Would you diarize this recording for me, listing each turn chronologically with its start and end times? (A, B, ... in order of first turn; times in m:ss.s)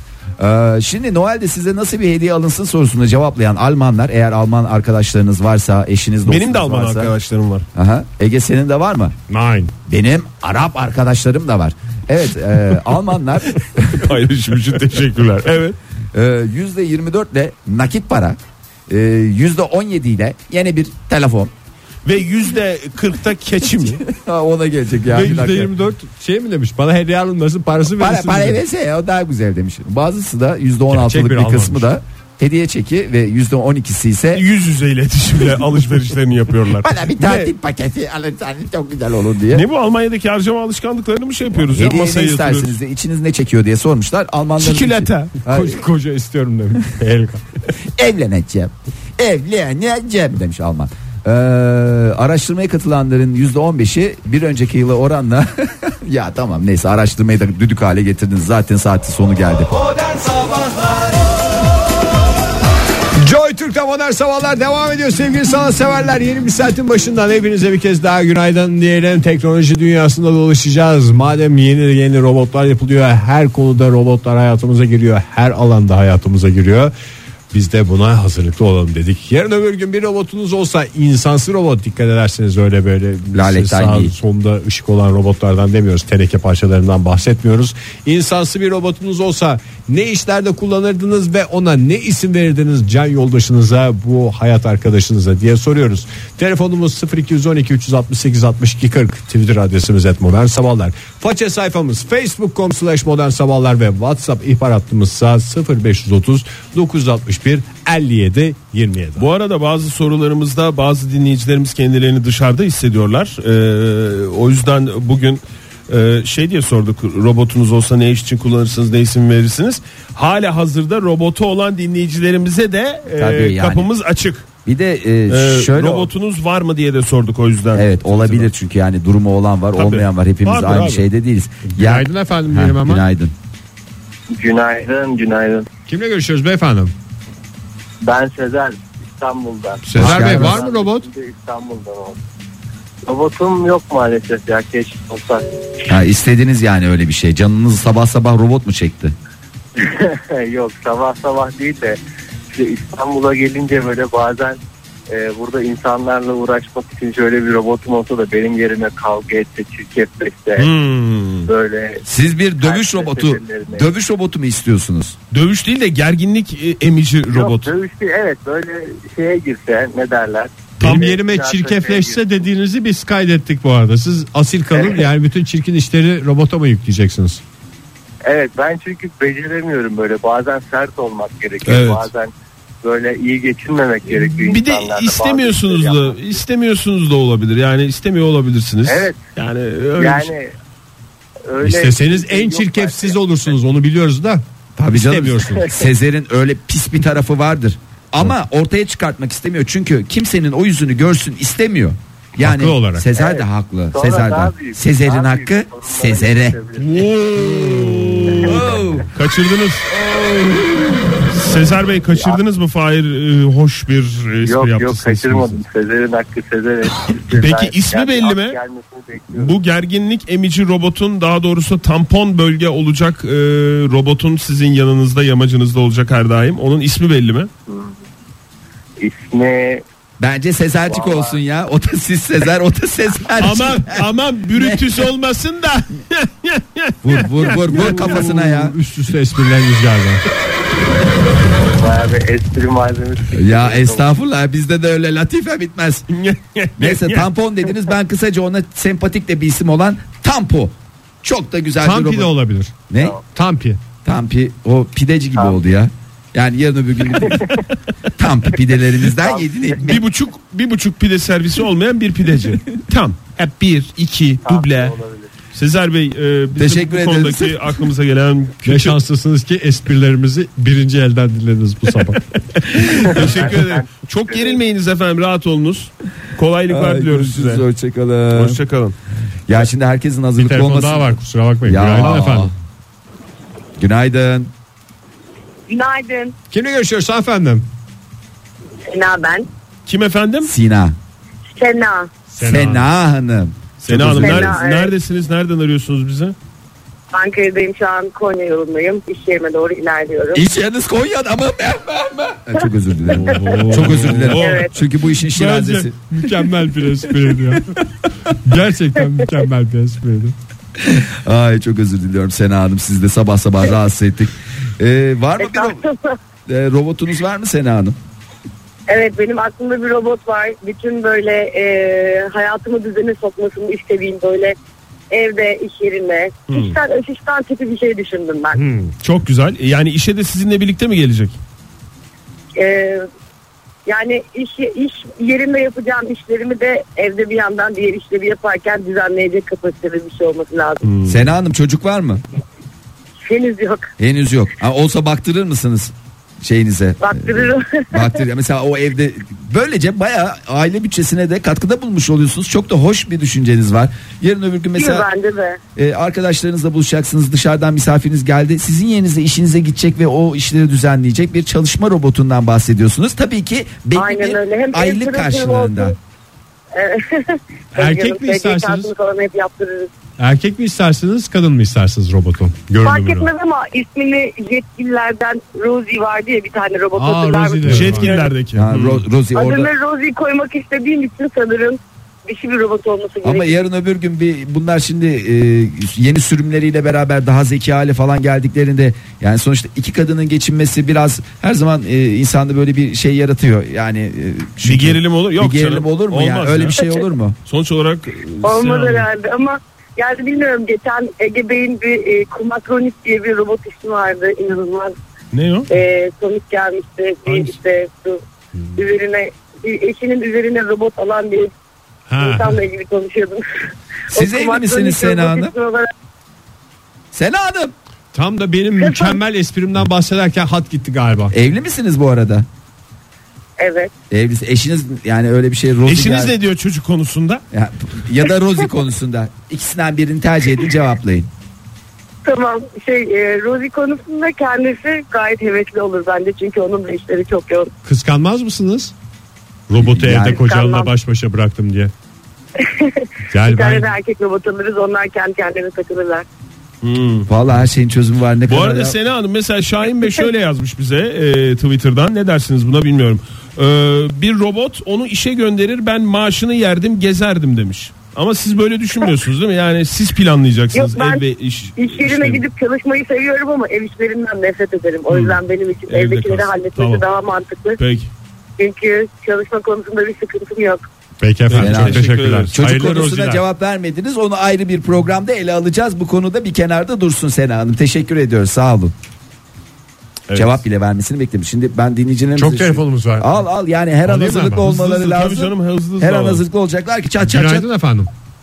0:00.4-0:07.1 A
0:06.2-0:07.6 B
0:07.7-0:09.2 A
0:09.3-0:09.7 C
0:09.8-0:14.1 A
0:13.9-0:15.8 B
0:16.1-0:18.4 A
0:18.9-0:21.5 A
0:22.0-0:24.0 B
0:24.0-0:25.7 A
0:25.1-0:28.6 C
0:27.8-0:34.4 A
0:30.9-0:31.9 C
0:34.3-0:37.5 B
0:36.8-0:39.6 A
0:39.5-0:42.8 B
0:41.5-0:45.8 A
0:44.6-0:45.4 B
0:45.4-0:47.4 C
0:47.9-0:59.7 A
1:03.2-1:16.9 C
1:17.5-1:49.3 C
1:23.3-1:24.1 A
1:49.2-2:04.4 B
2:03.1-2:03.9 A
2:04.6-2:06.1 A
2:05.3-2:08.5 B
2:07.7-2:13.3 A
2:09.8-2:11.0 B
2:11.7-2:13.0 C
2:14.3-2:15.7 D
2:15.9-2:16.9 C
2:18.0-2:22.2 D
2:19.9-2:21.0 C
2:19.9-2:20.6 A
2:23.0-2:25.4 D
2:25.9-2:29.1 A
2:29.8-2:32.0 D
2:32.5-2:40.7 D
2:40.6-2:41.5 B
2:41.4-2:42.0 D
2:42.0-2:45.2 A
2:42.6-2:43.9 D
2:45.3-2:47.7 B
2:47.3-2:52.4 D
2:50.8-2:57.4 C
2:54.7-2:55.0 D
2:58.2-3:06.4 D
3:01.6-3:02.1 B
3:04.1-3:10.3 B
3:08.8-3:09.2 D
3:10.0-3:10.5 D
3:11.5-3:13.2 D
3:11.6-3:15.7 C
3:14.8-3:26.6 A
3:22.4-3:23.1 C
3:23.1-3:27.1 D
3:26.8-3:29.9 B
3:27.6-3:27.9 C
3:28.3-3:28.6 D
3:28.4-3:29.1 A
3:29.9-3:31.0 A
3:31.2-3:35.6 B
3:32.1-3:32.4 D
3:34.4-3:39.6 D
3:37.3-3:38.6 B
3:39.3-3:47.5 B
3:47.7-3:47.9 D
3:49.0-3:49.8 D
3:50.2-3:54.0 A
3:50.9-3:51.4 D
3:53.4-3:58.1 B
3:57.0-3:58.7 A
3:57.7-4:00.2 C
4:01.7-4:04.1 D
4:03.3-4:06.1 A
4:06.1-4:07.2 B
4:06.8-4:12.3 A
4:11.8-4:12.7 C
4:12.9-4:13.2 A
4:13.3-4:13.8 C
4:14.0-4:17.4 A
4:17.3-4:17.5 D
4:18.2-4:20.0 A
4:19.3-4:19.6 D
4:19.8-4:25.0 B
4:24.4-4:25.3 D
4:25.5-4:29.0 B
4:26.6-4:27.7 A
4:28.6-4:32.2 C
4:33.0-4:37.6 B
4:33.1-4:34.6 D
4:36.7-4:38.6 A
4:38.3-4:39.0 B
4:39.5-4:42.5 A
4:40.4-4:42.5 C
4:43.8-4:44.5 A
4:45.7-4:46.3 E
4:46.5-4:47.6 C
4:48.9-4:49.5 E
4:49.8-4:50.5 B
4:50.4-4:51.0 A
4:51.5-4:52.1 E
4:52.3-4:52.9 C
4:52.4-4:54.6 A
4:53.8-4:56.3 B
4:54.2-4:54.9 E
4:57.1-5:00.4 E
5:00.3-5:06.5 A
5:03.1-5:04.3 C
5:03.2-5:04.7 B
5:04.4-5:04.7 E
5:05.3-5:07.8 C
5:07.1-5:07.6 A
5:08.3-5:10.4 C
5:10.8-5:15.8 A
5:15.4-5:16.2 E
5:16.5-5:18.0 A
5:18.9-5:24.6 E
5:25.1-5:28.6 E
5:26.5-5:26.8 B
5:28.5-5:28.9 C
5:29.0-5:31.4 B
5:32.6-5:33.0 E
5:33.8-5:40.9 E
5:40.8-5:41.2 B
5:41.0-5:42.2 A
5:43.2-5:43.9 E
5:44.0-5:55.1 A
5:47.0-5:48.2 E
5:54.7-5:55.6 E
5:55.8-6:06.0 A
6:03.9-6:05.9 E
6:06.7-6:09.9 E
6:07.7-6:08.9 C
6:10.2-6:13.3 C
6:12.8-6:18.3 E
6:17.0-6:18.1 C
6:17.6-6:19.0 B
6:18.5-6:19.7 A
6:19.3-6:23.6 E
6:23.2-6:37.4 A
6:34.6-6:36.7 B
6:36.8-6:37.0 E
6:37.5-6:39.1 B
6:38.4-6:44.9 E
6:45.3-6:45.7 B
6:45.7-6:48.2 E
6:48.8-6:51.5 E
6:52.1-6:52.6 C
6:52.2-6:53.4 E
6:54.1-6:55.9 E
6:54.1-6:55.5 A
6:57.1-6:57.7 A
6:58.1-7:01.3 C
6:58.8-6:59.2 E
7:01.3-7:02.4 A
7:03.6-7:03.9 E
7:04.1-7:06.3 A
7:05.8-7:07.4 B
7:07.5-7:11.3 A
7:12.2-7:17.7 E
7:17.8-7:18.9 C
7:19.7-7:21.9 C
7:19.8-7:20.4 A
7:20.3-7:20.9 E
7:22.6-7:26.2 E
7:23.3-7:23.9 C
7:26.8-7:27.3 B
7:27.3-7:29.0 A
7:28.5-7:42.4 B
7:40.7-7:41.2 E
7:41.8-7:47.8 E
7:45.1-7:47.0 B
7:47.8-7:48.1 B
7:48.6-7:50.8 E
7:51.2-7:53.4 C
7:51.5-7:52.5 B
7:51.6-7:58.9 A
8:00.3-8:00.6 B
8:00.3-8:07.7 A
8:02.4-8:03.3 C
8:04.0-8:04.6 C
8:04.6-8:06.4 B
8:07.2-8:08.1 C